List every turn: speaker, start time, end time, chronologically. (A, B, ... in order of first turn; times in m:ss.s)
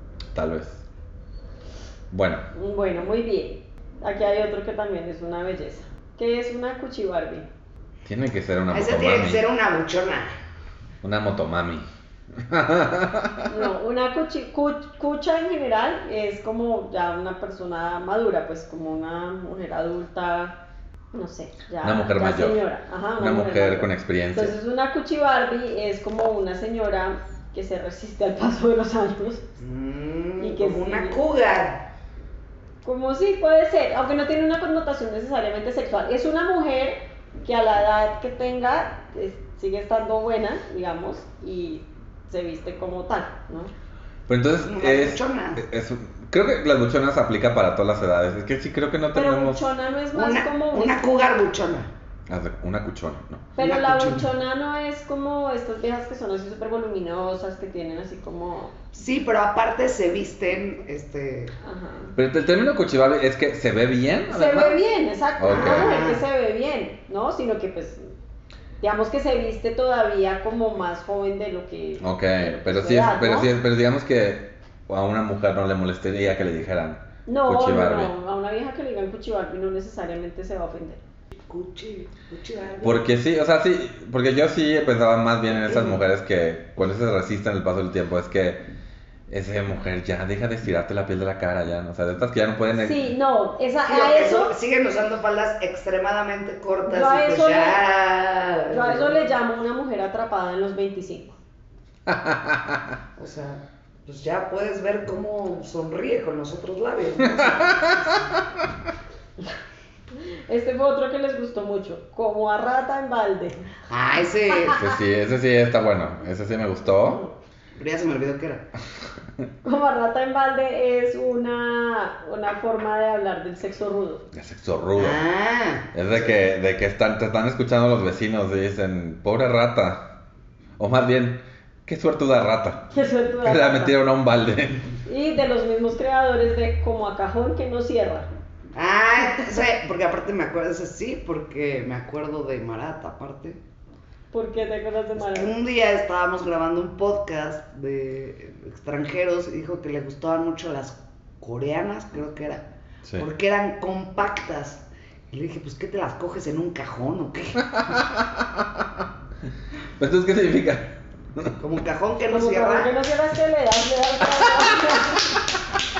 0:00.3-0:00.8 A
0:02.1-0:02.5 A
0:02.5-0:07.5 B
0:08.0-0:09.4 A
0:08.7-0:10.3 C
0:11.0-0:11.8 A
0:12.4-0:13.5 A
0:13.5-0:20.6 B
0:21.1-0:29.4 B
0:21.8-0:22.6 A
0:23.2-0:24.6 A
0:29.6-0:31.9 C
0:30.4-0:31.2 B
0:32.8-0:43.7 B
0:44.3-0:49.7 A
0:44.6-0:45.6 C
0:49.1-0:51.0 B
0:50.1-0:51.9 C
0:52.3-0:53.5 A
0:53.6-0:58.8 B
0:53.6-0:54.3 C
0:58.9-1:01.5 C
1:01.6-1:02.1 B
1:02.2-1:04.8 A
1:04.3-1:08.1 B
1:05.4-1:06.0 A
1:05.5-1:06.2 C
1:08.8-1:13.5 B
1:12.0-1:18.1 A
1:17.3-1:21.0 B
1:21.4-1:23.1 C
1:22.8-1:28.6 A
1:25.7-1:26.0 C
1:29.3-1:33.0 A
1:32.7-1:34.5 B
1:33.8-1:39.2 C
1:36.9-1:37.8 B
1:38.7-1:41.4 B
1:42.1-1:42.8 A
1:43.2-1:48.4 C
1:47.3-1:47.9 A
1:50.5-1:53.6 B
1:53.9-1:54.8 C
1:54.7-1:57.2 A
1:57.8-1:58.6 C
1:59.6-2:04.2 B
2:04.3-2:05.2 A
2:05.0-2:06.3 C
2:05.9-2:10.0 A
2:10.8-2:12.9 A
2:12.9-2:13.9 B
2:13.4-2:14.8 A
2:15.0-2:18.3 B
2:18.7-2:23.6 C
2:24.3-2:25.5 B
2:25.2-2:32.6 C
2:33.2-2:37.6 C
2:37.7-2:38.8 A
2:40.0-2:41.5 A
2:41.6-2:42.9 C
2:42.3-2:45.3 B
2:44.6-2:44.8 A